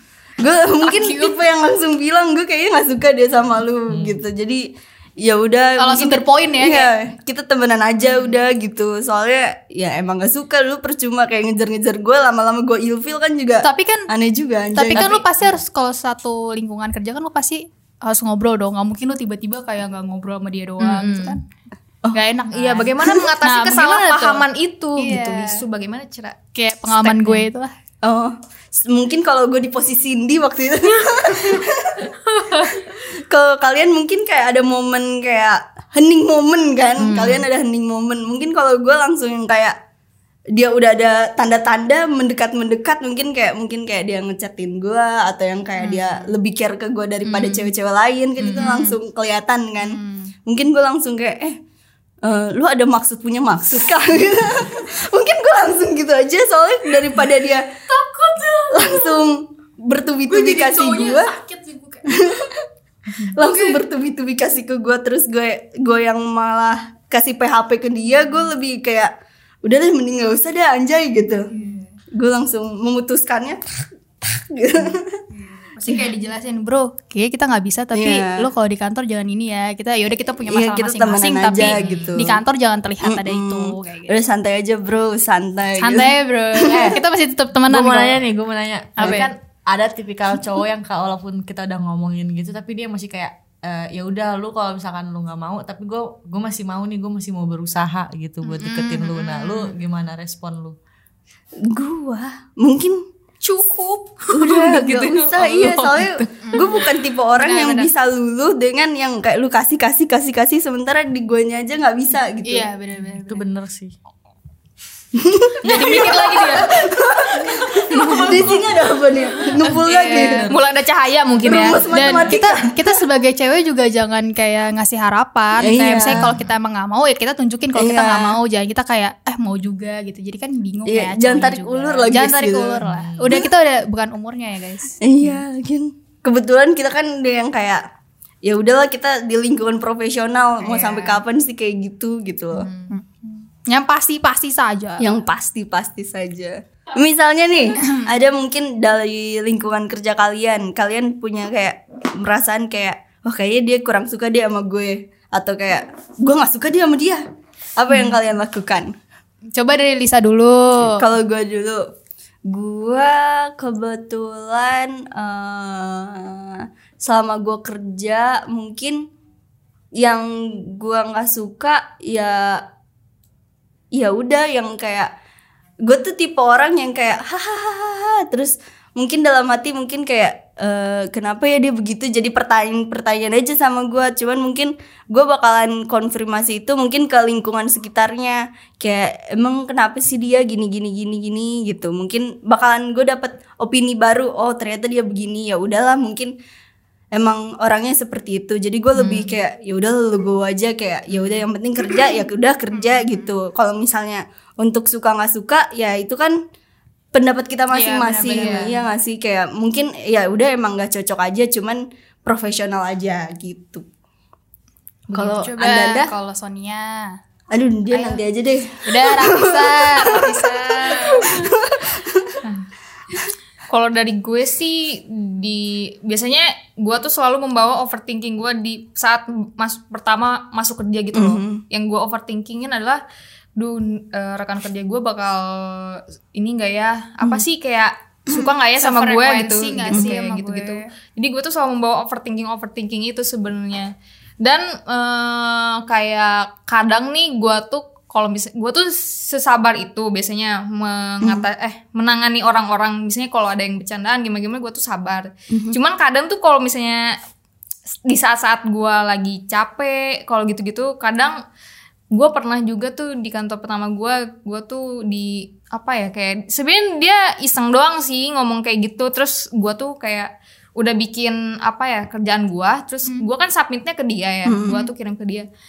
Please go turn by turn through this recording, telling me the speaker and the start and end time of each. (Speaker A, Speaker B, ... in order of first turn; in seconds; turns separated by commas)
Speaker A: 0.4-15.2, Speaker B: 0.8-1.4, Speaker C: 3.9-4.2, Speaker B: 5.8-6.9, Speaker B: 13.6-14.1, Speaker B: 14.7-21.4, Speaker D: 20.8-21.4, Speaker B: 22.1-24.4, Speaker D: 22.5-26.4, Speaker B: 25.0-25.6, Speaker B: 26.5-27.7, Speaker D: 26.9-27.5, Speaker A: 28.0-32.1, Speaker A: 32.9-39.8, Speaker D: 37.0-37.4, Speaker A: 40.5-51.6, Speaker B: 45.8-46.3, Speaker B: 48.4-49.0, Speaker D: 48.5-48.8, Speaker B: 49.8-50.3, Speaker A: 52.2-57.7, Speaker B: 57.9-59.3, Speaker A: 58.7-61.3, Speaker B: 60.3-62.3, Speaker A: 62.0-62.6, Speaker A: 63.2-69.1, Speaker B: 63.2-63.8, Speaker A: 69.6-71.5, Speaker B: 71.5-71.9, Speaker A: 72.1-75.2, Speaker B: 75.4-84.2, Speaker A: 75.8-76.1, Speaker A: 77.9-78.5, Speaker A: 80.4-82.4, Speaker D: 81.7-82.1, Speaker A: 83.0-87.0, Speaker B: 85.8-88.2, Speaker C: 87.7-100.8, Speaker B: 89.0-89.3, Speaker B: 98.4-99.7, Speaker A: 101.6-103.0, Speaker D: 103.4-106.7, Speaker A: 104.3-112.7, Speaker B: 106.4-106.8, Speaker D: 107.4-107.9, Speaker B: 112.4-113.4, Speaker C: 113.0-113.9, Speaker A: 115.1-120.5, Speaker C: 115.7-116.3, Speaker B: 115.7-116.7, Speaker C: 117.8-118.5, Speaker C: 119.6-120.6, Speaker D: 119.8-121.8, Speaker A: 121.4-123.0, Speaker B: 121.5-135.4, Speaker A: 125.6-126.4, Speaker A: 127.7-128.4, Speaker A: 130.8-133.5, Speaker C: 132.8-133.4, Speaker A: 135.0-137.8, Speaker A: 138.4-142.7, Speaker D: 140.6-141.2, Speaker D: 142.5-142.9, Speaker B: 142.9-145.1, Speaker A: 145.0-157.2, Speaker A: 157.8-158.9, Speaker B: 159.5-161.1, Speaker A: 160.8-161.8, Speaker A: 162.5-169.0, Speaker A: 170.0-172.6, Speaker A: 173.9-175.1, Speaker A: 175.8-196.3, Speaker A: 197.1-206.4, Speaker D: 198.9-199.3, Speaker B: 202.7-203.2, Speaker A: 207.1-213.8, Speaker B: 207.7-208.8, Speaker D: 208.2-208.7, Speaker A: 215.1-216.1, Speaker B: 215.1-217.2, Speaker A: 217.5-222.4, Speaker B: 217.9-218.2, Speaker B: 218.8-221.5, Speaker D: 223.7-233.0, Speaker A: 231.1-231.6, Speaker D: 233.6-257.2, Speaker B: 238.8-240.9, Speaker A: 255.5-255.8, Speaker D: 258.1-261.4, Speaker D: 262.1-275.5, Speaker A: 274.4-274.9